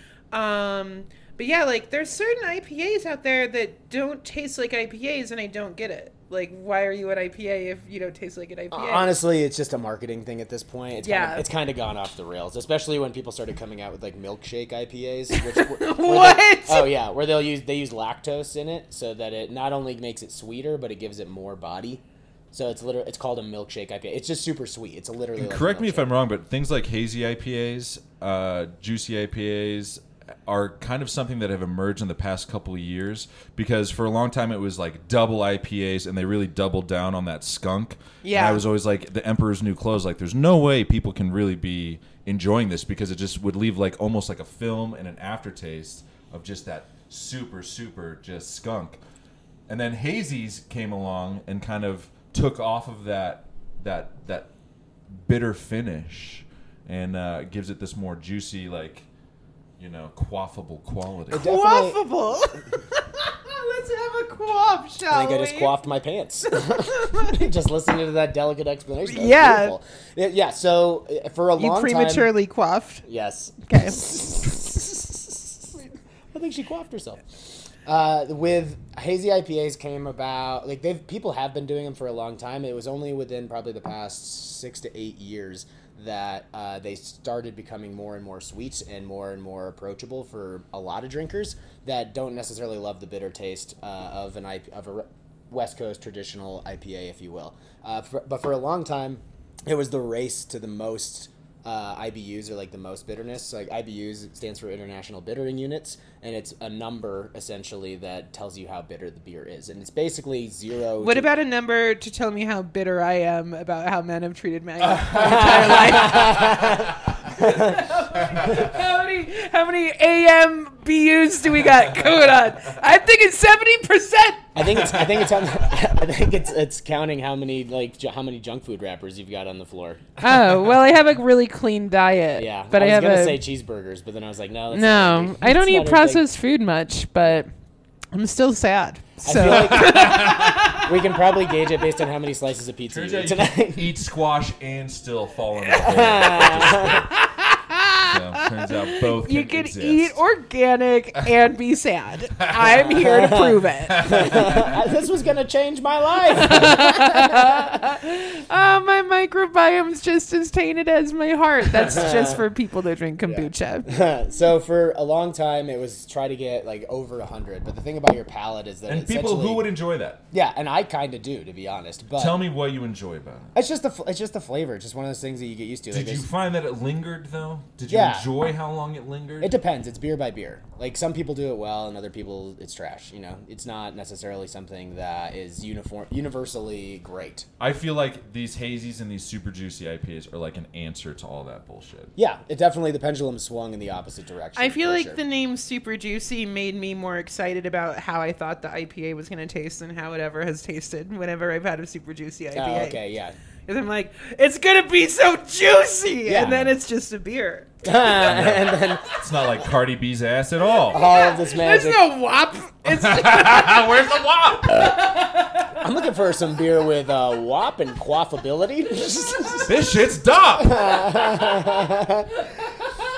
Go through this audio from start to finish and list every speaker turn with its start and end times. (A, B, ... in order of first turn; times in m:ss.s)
0:00.3-0:09.2 A
0:08.7-0:26.1 B
0:11.0-0:11.4 A
0:15.5-0:17.0 A
0:25.4-0:49.0 C
0:38.2-0:38.6 A
0:49.7-0:54.5 C
0:55.2-0:59.1 C
0:59.8-1:01.5 C
1:01.3-1:02.0 B
1:01.3-1:05.7 A
1:05.1-1:12.3 B
1:06.7-1:07.3 A
1:09.1-1:09.8 A
1:11.6-1:13.0 A
1:13.0-1:51.3 B
1:13.7-1:14.0 A
1:51.0-2:04.9 A
1:55.1-1:57.9 B
1:55.4-1:55.8 C
2:04.6-2:10.0 B
2:10.2-2:13.4 A
2:12.4-2:16.2 B
2:14.7-2:17.5 A
2:18.1-2:20.9 A
2:19.2-2:23.9 B
2:19.8-2:20.3 C
2:22.9-2:27.1 C
2:25.7-2:27.0 B
2:27.1-2:34.5 A
2:28.0-2:30.2 C
2:32.9-2:37.8 B
2:34.0-2:34.7 C
2:36.3-2:43.9 A
2:41.9-2:42.3 B
2:43.2-2:49.7 B
2:48.9-2:50.2 C
2:50.3-2:52.4 B
2:52.2-2:53.5 C
2:53.5-2:56.3 B
2:55.9-2:59.5 C
2:57.9-2:58.3 B
2:59.4-3:07.5 B
3:07.6-3:12.1 C
3:12.2-3:15.2 B
3:14.6-3:23.0 A
3:22.5-3:23.4 B
3:23.7-3:27.7 A
3:26.2-3:26.7 B
3:27.8-3:29.0 B
3:28.1-3:31.0 C
3:30.9-3:33.9 A
3:30.9-3:32.0 B
3:32.9-3:34.8 C
3:34.7-3:35.8 A
3:35.7-3:39.7 B
3:39.6-3:41.2 C
3:40.6-3:42.3 B